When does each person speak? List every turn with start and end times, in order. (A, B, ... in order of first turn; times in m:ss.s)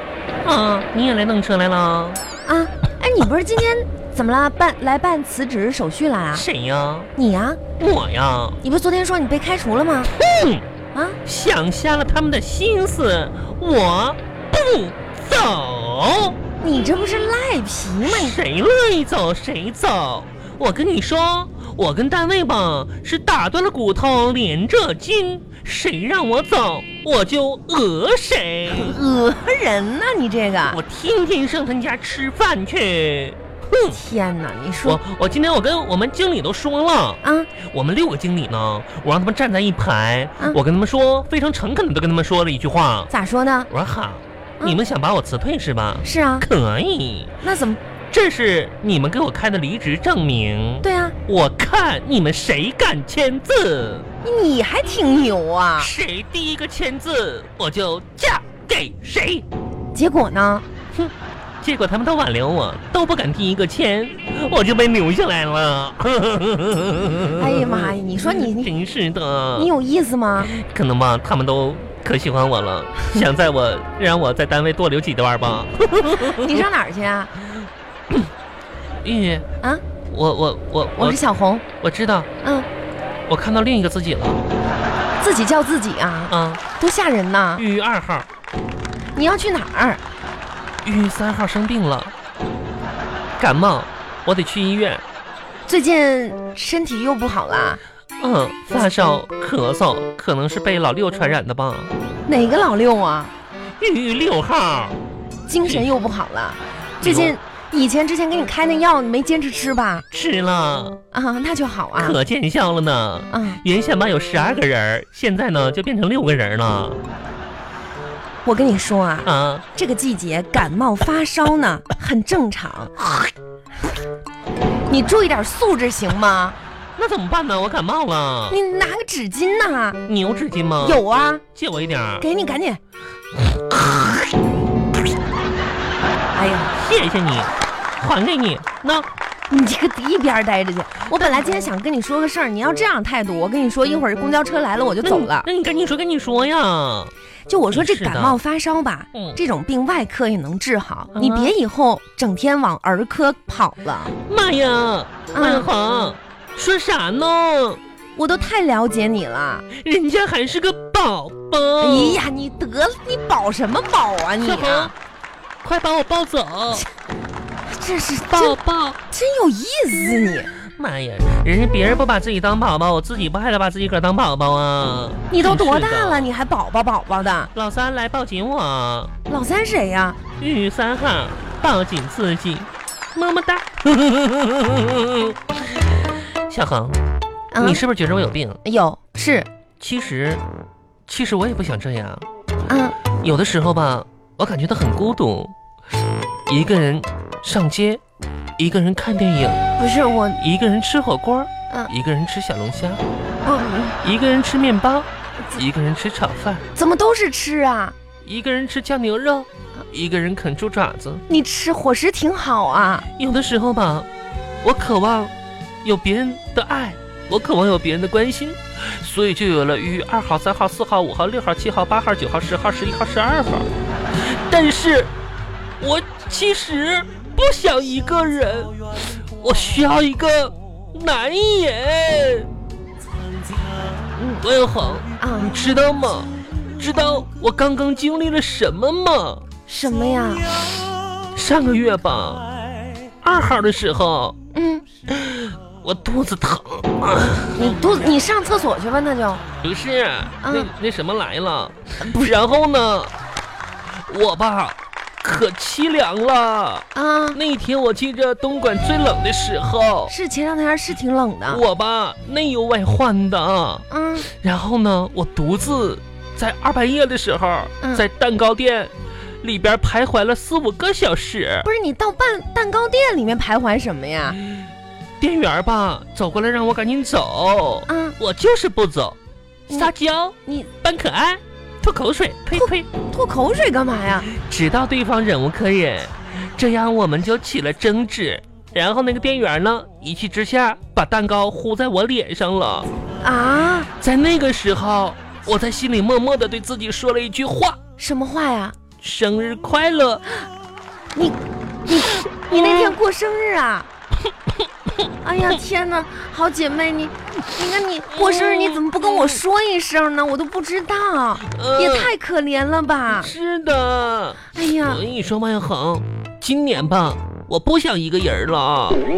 0:00.4-0:02.2 A
0:02.5-0:06.4 B
0:06.3-0:07.1 A
0:07.2-0:07.6 B
0:07.8-0:08.6 A
0:08.6-0:10.1 B
0:10.2-0:10.6 A
0:10.9-0:11.2 B
0:11.2-0:16.4 A
0:16.6-0:18.4 B
0:18.0-0:29.0 A
0:28.7-0:30.8 B
0:30.7-0:34.0 A
0:33.9-0:35.0 B
0:34.8-0:43.1 A
0:37.2-0:37.5 B
0:43.1-0:43.7 B
0:43.7-0:47.3 A
0:46.0-0:46.5 B
0:47.4-0:47.8 B
0:48.1-0:54.1 A
0:50.8-0:51.2 B
0:54.2-0:55.9 B
0:55.8-0:59.4 A
1:00.0-1:00.6 B
1:01.0-1:09.7 A
1:07.3-1:08.7 B
1:09.6-1:10.5 B
1:10.4-1:16.7 A
1:16.2-1:17.3 B
1:19.0-1:19.5 A
1:20.1-1:21.2 A
1:21.0-1:21.6 B
1:21.8-1:22.3 A
1:22.4-1:22.7 B
1:23.3-1:24.4 A
1:25.2-1:27.6 B
1:26.3-1:26.6 A
1:27.6-1:28.3 A
1:29.2-1:30.0 B
1:30.8-1:32.1 A
1:33.4-1:35.0 A
1:35.7-1:37.8 B
1:38.2-1:41.9 A
1:42.3-1:43.3 B
1:43.8-1:45.0 A
1:45.5-1:50.0 B
1:45.6-1:45.9 A
1:47.0-1:47.4 A
1:50.1-1:51.0 A
1:51.1-1:52.2 B
1:52.0-1:57.0 A
1:53.3-1:53.6 B
1:58.4-2:02.9 B
1:59.2-1:59.6 A
2:04.9-2:06.6 B
2:07.0-2:08.6 A
2:08.5-2:10.0 B
2:10.1-2:11.0 A
2:10.8-2:11.4 B
2:11.6-2:12.2 A
2:12.2-2:12.8 B
2:16.3-2:16.7 B
2:16.7-2:19.1 A
2:19.5-2:25.5 B
2:21.2-2:21.6 A
2:25.0-2:27.1 A
2:27.5-2:34.1 B
2:27.7-2:28.4 A
2:31.1-2:31.6 A
2:34.3-2:37.8 A
2:35.3-2:35.7 B
2:38.2-2:39.7 B
2:39.7-2:42.2 A
2:41.8-2:44.9 B
2:44.4-2:44.9 A
2:45.6-2:46.9 A
2:47.7-2:48.6 B
2:48.3-2:49.0 A
2:49.1-2:50.5 B
2:50.8-2:56.3 A
2:55.3-2:57.5 B
2:57.5-2:59.1 A
2:59.3-3:00.2 B
3:00.4-3:07.0 A
3:07.5-3:07.8 B
3:07.6-3:08.6 A
3:08.6-3:09.5 B
3:09.8-3:10.4 A
3:11.1-3:12.3 A
3:12.7-3:13.0 B
3:13.2-3:15.5 A
3:16.5-3:18.0 A
3:18.6-3:19.6 A
3:19.8-3:20.4 B
3:20.4-3:23.0 A
3:23.4-3:24.0 B
3:24.0-3:26.6 A
3:26.7-3:28.0 B
3:28.2-3:31.2 A
3:31.3-3:33.1 B
3:33.2-3:34.1 A
3:34.6-3:35.3 A
3:35.8-3:45.1 A
3:45.8-3:52.5 A
3:54.2-3:54.5 B
3:54.4-3:59.4 A
3:55.2-3:55.7 B
3:59.7-4:00.7 B
4:01.3-4:02.5 A
4:03.2-4:04.4 A
4:04.5-4:04.8 B
4:05.1-4:07.8 A
4:07.6-4:09.4 B
4:09.6-4:13.1 A
4:10.4-4:10.7 B
4:12.0-4:12.4 B
4:14.0-4:20.1 A
4:17.0-4:17.4 B
4:20.1-4:21.6 B
4:21.5-4:31.7 A
4:23.9-4:24.3 B
4:31.6-4:34.4 B
4:35.2-4:39.2 A
4:37.9-4:38.2 B
4:39.7-4:42.9 A
4:42.5-4:44.3 B
4:44.3-4:52.9 A
4:53.2-4:53.9 B
4:54.0-4:57.8 A
4:58.0-4:58.8 B
4:59.0-5:00.2 A
5:01.2-5:03.9 B
5:02.2-5:03.0 A
5:05.2-5:13.3 B
5:08.1-5:09.4 A
5:11.5-5:12.1 A
5:13.1-5:19.0 A
5:14.5-5:15.0 B